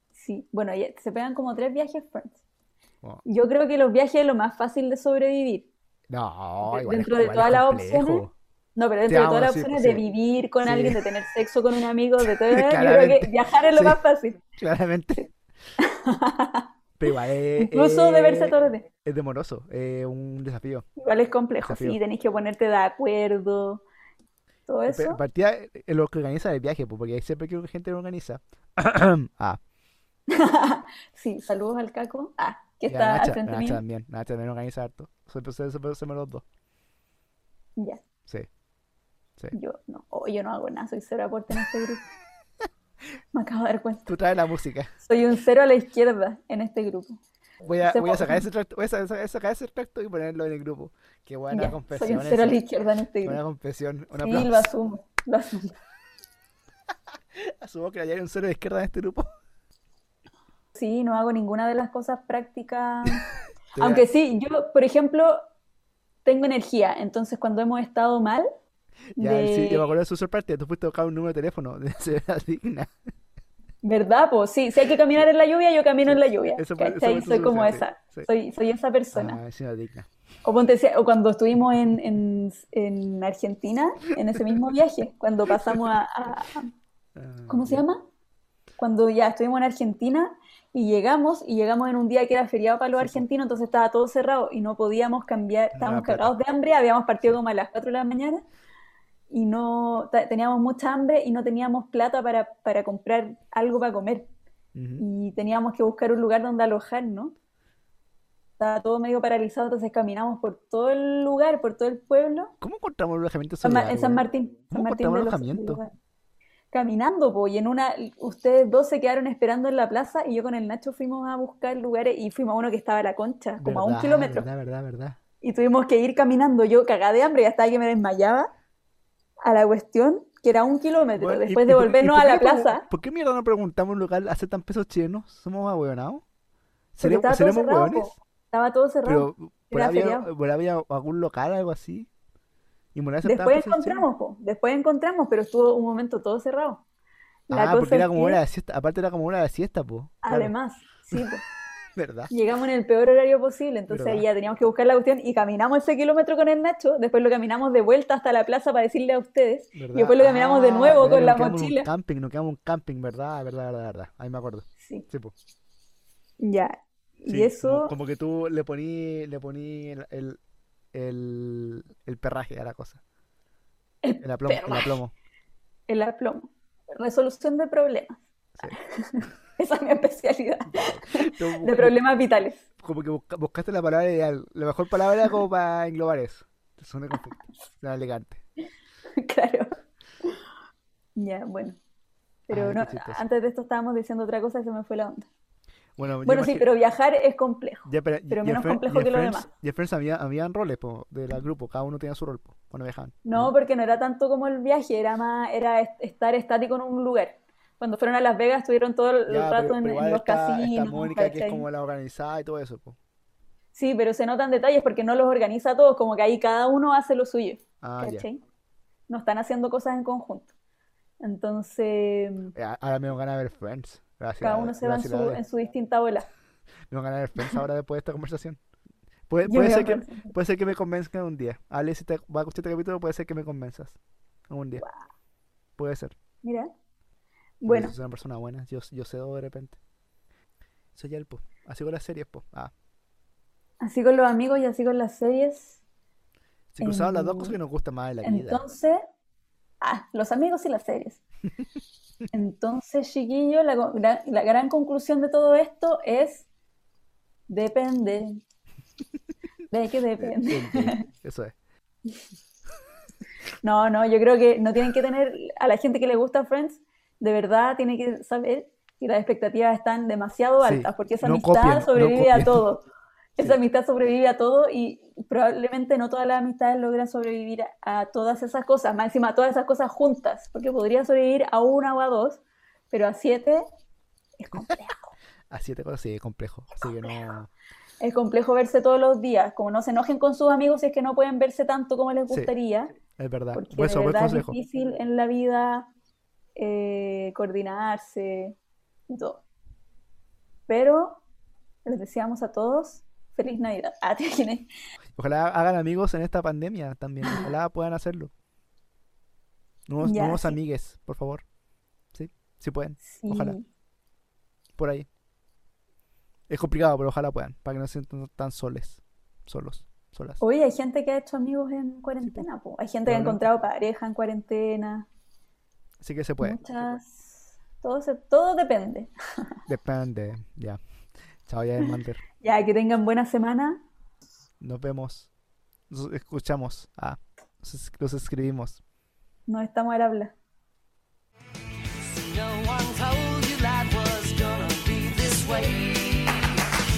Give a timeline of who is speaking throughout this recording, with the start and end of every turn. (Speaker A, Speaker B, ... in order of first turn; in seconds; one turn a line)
Speaker A: 0.1-2.4
Speaker A: 3.2-5.7
Speaker B: 6.1-8.3
Speaker A: 6.6-14.4
Speaker B: 9.1-10.0
Speaker B: 10.6-11.1
Speaker B: 12.2-14.0
Speaker B: 14.6-15.3
Speaker A: 15.8-18.9
Speaker B: 17.0-20.9
Speaker A: 21.0-23.8
Speaker B: 21.6-22.0
Speaker A: 24.7-25.2
Speaker B: 24.9-29.6
Speaker A: 30.3-33.8
Speaker B: 32.9-36.4
Speaker A: 37.8-38.0
Speaker A: 39.5-42.0
Speaker A: 43.3-44.1
Speaker B: 44.1-44.9
Speaker A: 45.0-47.2
Speaker B: 47.6-52.6
Speaker A: 47.8-48.5
Speaker A: 51.5-53.4
Speaker B: 53.2-54.7
Speaker A: 54.2-55.8
Speaker B: 57.3-59.3
Speaker A: 60.8-63.3
Speaker B: 63.7-64.0
Speaker A: 63.8-65.4
Speaker A: 66.2-68.5
Speaker A: 69.2-69.9
Speaker B: 69.2-72.9
Speaker A: 73.8-79.4
Speaker B: 76.0-78.3
Speaker B: 79.1-80.1
Speaker A: 80.4-86.7
Speaker B: 85.5-85.8
Speaker B: 87.2-87.8
Speaker A: 87.5-88.0
Speaker A: 88.8-98.4
Speaker B: 93.0-93.2
Speaker B: 95.8-96.3
Speaker A: 99.3-104.3
Speaker B: 104.7-105.0
Speaker A: 105.0-107.3
Speaker A: 108.6-112.5
Speaker B: 112.6-115.8
Speaker A: 113.6-115.9
Speaker A: 116.7-124.5
Speaker B: 123.6-125.2
Speaker A: 125.4-128.5
Speaker A: 129.4-132.8
Speaker B: 131.2-136.2
Speaker B: 136.9-138.1
Speaker A: 137.0-140.3
Speaker B: 139.0-142.1
Speaker B: 142.9-144.1
Speaker A: 143.2-146.8
Speaker A: 147.5-148.4
Speaker B: 147.5-150.5
Speaker A: 150.2-151.4
Speaker B: 151.9-152.3
Speaker A: 152.3-161.9
Speaker B: 153.9-154.2
Speaker B: 159.7-165.3
Speaker A: 164.8-165.1
Speaker A: 166.4-167.9
Speaker B: 167.3-170.4
Speaker B: 170.9-173.0
Speaker A: 174.0-174.9
Speaker B: 174.2-175.1
Speaker A: 175.9-182.6
Speaker B: 180.7-182.0
Speaker B: 182.8-188.4
Speaker A: 189.2-190.4
Speaker A: 191.2-191.8
Speaker A: 192.5-195.3
Speaker B: 192.5-193.2
Speaker B: 196.0-196.7
Speaker A: 196.2-199.5
Speaker B: 197.8-203.5
Speaker A: 203.2-211.6
Speaker B: 209.3-213.0
Speaker A: 213.7-218.4
Speaker B: 217.8-218.2
Speaker A: 219.1-220.5
Speaker A: 221.2-222.5
Speaker B: 222.6-225.4
Speaker A: 224.4-226.3
Speaker B: 226.9-228.6
Speaker B: 229.3-234.0
Speaker A: 229.4-230.3
Speaker B: 234.5-234.8
Speaker B: 235.8-236.1
Speaker A: 236.4-236.7
Speaker A: 237.6-237.9
Speaker B: 237.7-239.8
Speaker B: 240.9-242.7
Speaker A: 243.8-245.8
Speaker B: 246.7-248.6
Speaker A: 246.8-247.6
Speaker A: 248.2-249.0
Speaker A: 249.8-251.2
Speaker A: 252.3-256.5
Speaker A: 257.5-258.4
Speaker A: 259.7-261.0
Speaker B: 260.2-261.5
Speaker A: 263.6-272.9
Speaker B: 270.6-272.7
Speaker A: 273.4-283.6
Speaker A: 284.4-285.1
Speaker B: 285.5-287.5
Speaker A: 288.0-292.9
Speaker B: 293.1-294.6
Speaker A: 293.5-295.9
Speaker A: 296.6-298.6
Speaker A: 299.1-299.4
Speaker A: 300.7-301.2
Speaker A: 301.9-304.7
Speaker B: 305.2-308.3
Speaker B: 309.9-311.4
Speaker A: 310.0-310.6
Speaker B: 312.1-313.6
Speaker A: 313.0-313.6
Speaker B: 314.8-315.1
Speaker B: 316.5-320.4
Speaker A: 320.4-325.1
Speaker B: 323.1-323.4
Speaker B: 326.0-326.7
Speaker A: 326.4-329.1
Speaker B: 329.7-330.8
Speaker B: 331.4-332.2
Speaker A: 332.4-333.8
Speaker B: 334.6-335.3
Speaker B: 335.9-338.8
Speaker A: 339.5-340.3
Speaker C: 342.0-346.6